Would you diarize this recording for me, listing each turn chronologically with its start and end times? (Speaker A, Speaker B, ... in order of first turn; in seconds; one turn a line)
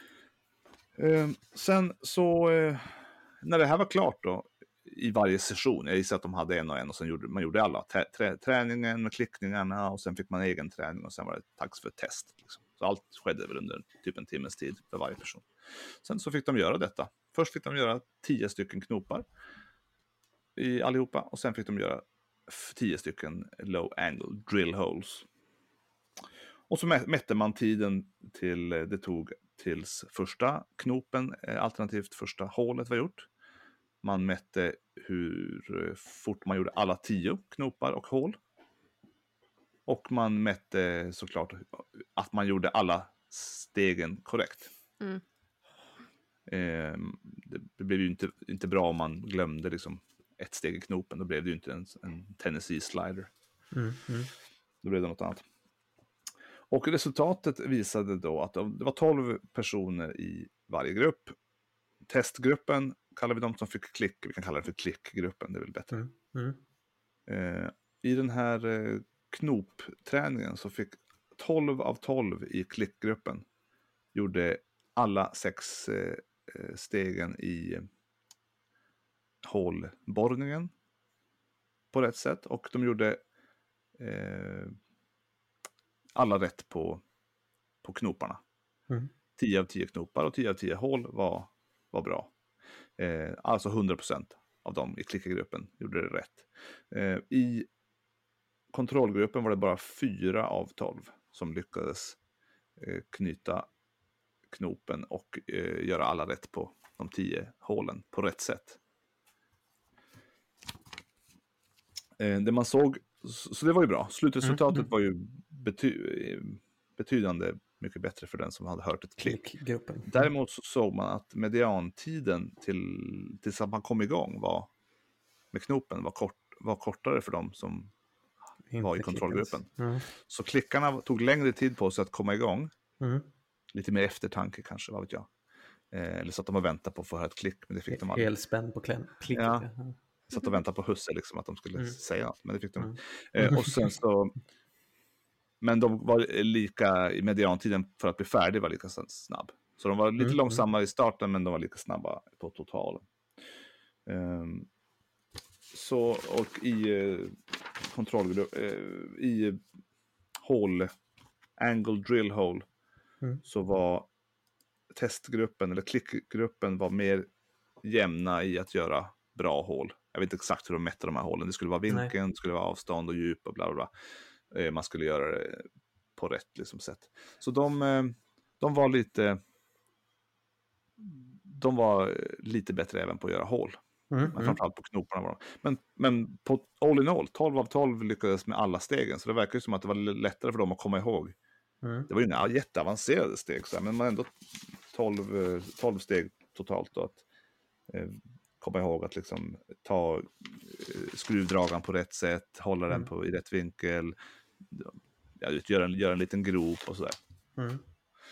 Speaker A: 1.0-15.5
Speaker A: 16.0-19.2
Speaker A: 20.6-25.3
Speaker A: 26.7-33.3
Speaker A: 34.0-38.4
Speaker A: 39.9-44.7
Speaker A: 46.5-53.3
Speaker B: 53.7-54.3
Speaker A: 54.8-55.4
Speaker A: 56.7-61.4
Speaker A: 62.0-66.0
Speaker B: 65.9-66.6
Speaker A: 67.3-73.5
Speaker A: 74.1-77.8
Speaker A: 79.4-80.7
Speaker A: 81.9-83.2
Speaker A: 84.0-84.7
Speaker A: 86.2-87.0
Speaker A: 87.8-88.4
Speaker A: 89.4-92.3
Speaker A: 93.0-97.7
Speaker A: 98.7-102.2
Speaker A: 102.8-103.7
Speaker A: 104.5-108.8
Speaker A: 112.2-119.4
Speaker B: 114.4-114.8
Speaker B: 119.2-120.3
Speaker A: 120.0-124.7
Speaker A: 125.5-127.9
Speaker B: 128.7-130.1
Speaker A: 128.8-132.7
Speaker B: 133.0-133.3
Speaker A: 133.7-135.3
Speaker A: 135.9-138.3
Speaker B: 137.9-139.9
Speaker A: 139.3-139.7
Speaker A: 140.3-144.3
Speaker B: 142.8-143.9
Speaker A: 145.6-153.1
Speaker B: 150.2-150.6
Speaker A: 154.1-154.7
Speaker A: 155.7-159.6
Speaker A: 160.4-160.9
Speaker A: 161.6-162.7
Speaker A: 163.5-164.1
Speaker A: 164.9-167.3
Speaker A: 167.8-173.9
Speaker A: 174.5-175.6
Speaker A: 176.2-179.4
Speaker A: 181.0-183.8
Speaker B: 184.1-184.6
Speaker A: 184.3-191.3
Speaker B: 191.8-192.1
Speaker A: 192.1-194.3
Speaker A: 194.9-197.2
Speaker A: 197.9-204.1
Speaker A: 204.7-207.2
Speaker B: 207.6-207.8